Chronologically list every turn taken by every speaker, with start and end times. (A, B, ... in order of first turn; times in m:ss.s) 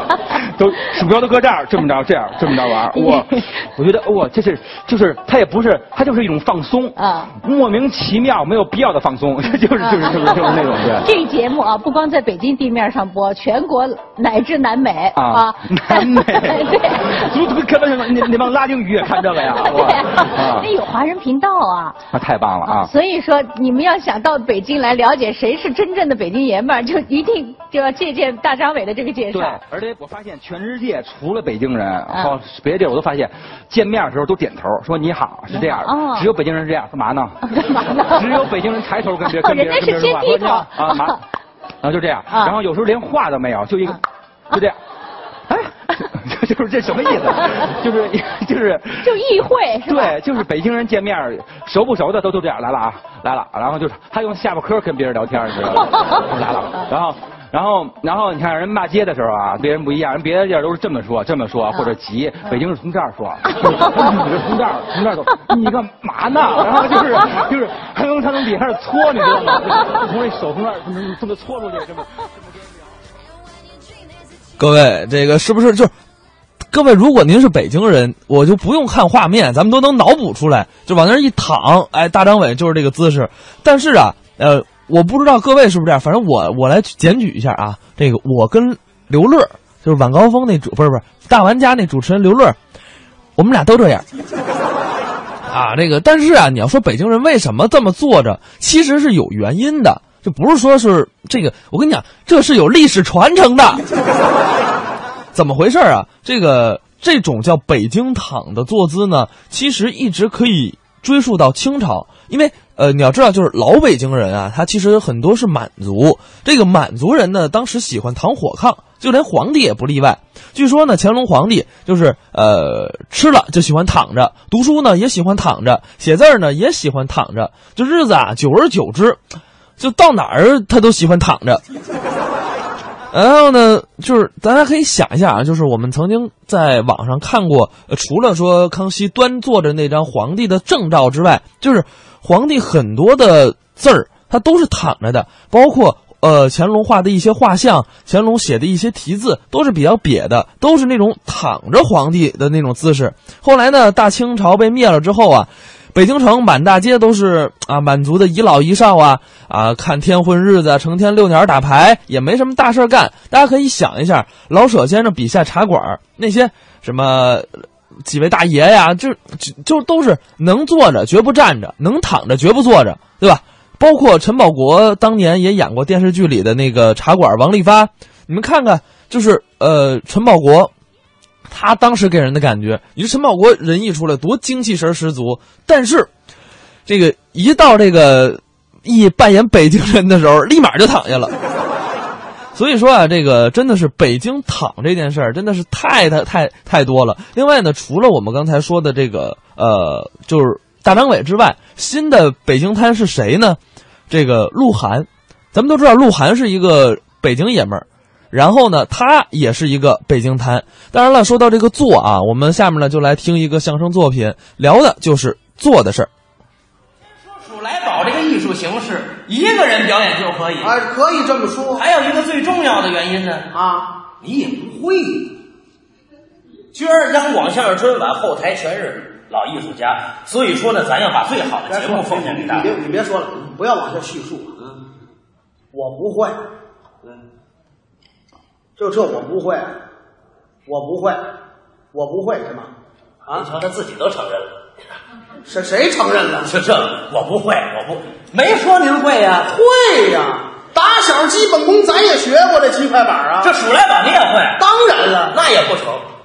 0:00.3-0:11.1 A
0:02.9-0:03.4 B
0:07.0-0:07.3 B
0:09.8-0:17.3 B
0:15.1-0:20.7 A
0:19.0-0:22.0 B
0:22.1-0:22.9 A
0:22.6-0:29.6 B
0:29.3-0:41.2 A
0:32.1-0:32.3 B
0:35.5-0:36.3 B
0:37.5-0:38.3 B
0:39.3-0:41.2 B
0:41.8-0:44.8 A
0:45.5-0:49.2 A
0:49.0-0:50.2 B
0:49.9-1:12.4 A
1:14.6-1:15.9 C
1:16.7-1:32.6 C
1:33.4-1:34.0 C
1:35.5-1:43.8 C
1:45.3-2:09.2 C
2:09.8-2:11.6 C
2:13.1-3:00.7 C
3:01.5-3:06.1 C
3:06.9-3:11.3 C
3:12.5-3:36.1 C
3:37.4-3:40.8 D
3:40.6-3:41.8 E
3:41.7-3:43.5 D
3:43.5-3:43.9 E
3:44.2-3:45.4 D
3:46.7-3:52.8 D
3:51.7-3:54.5 E
3:55.7-3:56.4 E
3:58.8-3:59.7 E
4:00.7-4:01.2 E
4:01.9-4:02.7 E
4:03.3-4:04.5 D
4:05.4-4:06.5 E
4:06.4-4:09.5 D
4:09.5-4:13.5 E
4:13.4-4:14.6 D
4:14.6-4:15.4 E
4:15.3-4:16.0 D